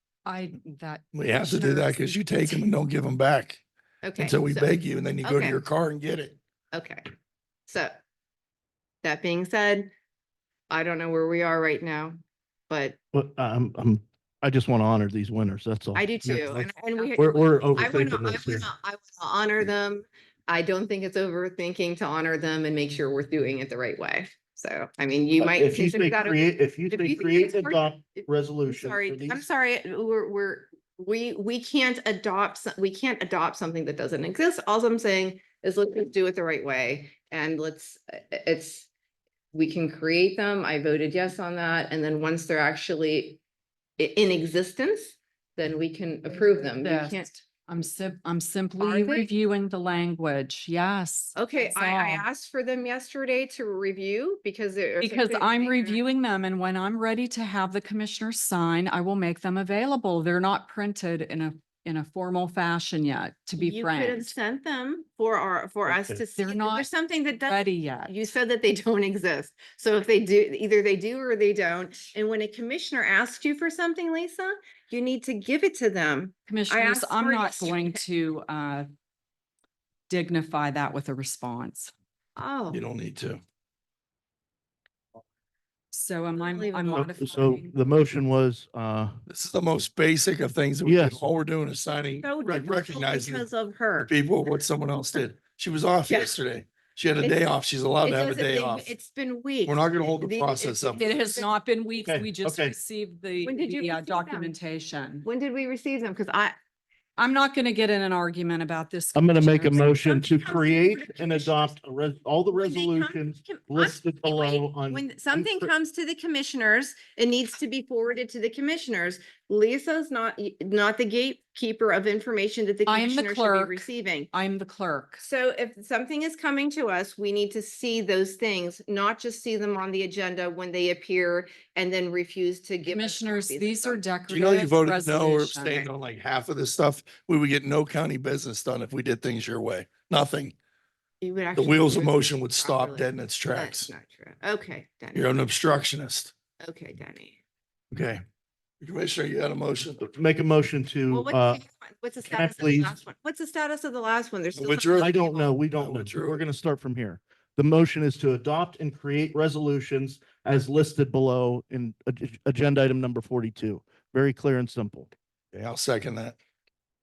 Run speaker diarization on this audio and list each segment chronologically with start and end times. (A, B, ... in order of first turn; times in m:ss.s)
0:00.2-0:02.6 A
0:01.1-0:03.6 B
0:04.0-0:04.7 C
0:04.2-0:06.4 B
0:05.2-0:05.6 C
0:06.7-0:07.1 C
0:07.7-0:08.0 C
0:09.0-0:09.9 C
0:10.7-0:13.0 C
0:13.1-0:18.7 D
0:15.9-0:38.9 C
0:25.4-0:29.4 D
0:39.5-0:43.4 C
0:44.0-0:47.3 C
0:46.8-0:52.2 A
0:48.8-0:49.3 C
0:51.4-0:56.0 C
0:55.0-1:04.3 A
1:03.6-1:18.0 C
1:06.4-1:06.9 A
1:07.4-1:08.2 A
1:16.5-1:18.9 A
1:20.1-1:21.9 A
1:22.4-1:22.8 C
1:22.7-1:23.4 B
1:25.9-1:27.8 A
1:26.4-1:27.5 C
1:27.0-1:29.2 D
1:29.3-1:33.5 B
1:30.8-1:31.3 D
1:32.2-1:34.1 C
1:34.0-1:38.9 B
1:36.1-1:36.3 C
1:37.2-1:37.4 C
1:38.0-1:41.5 C
1:39.7-1:41.0 B
1:41.0-1:45.3 A
1:42.0-1:42.8 D
1:43.4-1:44.5 C
1:45.2-1:46.6 C
1:47.2-1:50.0 A
1:49.2-1:55.7 D
1:49.8-1:51.8 C
1:52.5-2:04.3 C
2:02.9-2:05.2 A
2:05.2-2:14.0 C
2:12.9-2:15.9 A
2:14.3-2:20.5 B
2:21.2-2:25.5 C
2:21.5-2:23.9 B
2:25.1-2:26.3 B
2:26.6-2:27.4 C
2:27.9-2:28.2 B
2:28.8-2:30.0 B
2:30.0-2:31.6 D
2:31.1-2:35.5 C
2:32.3-2:32.9 D
2:34.5-2:35.2 B
2:35.0-2:45.1 D
2:35.8-2:36.4 B
2:45.5-2:46.4 B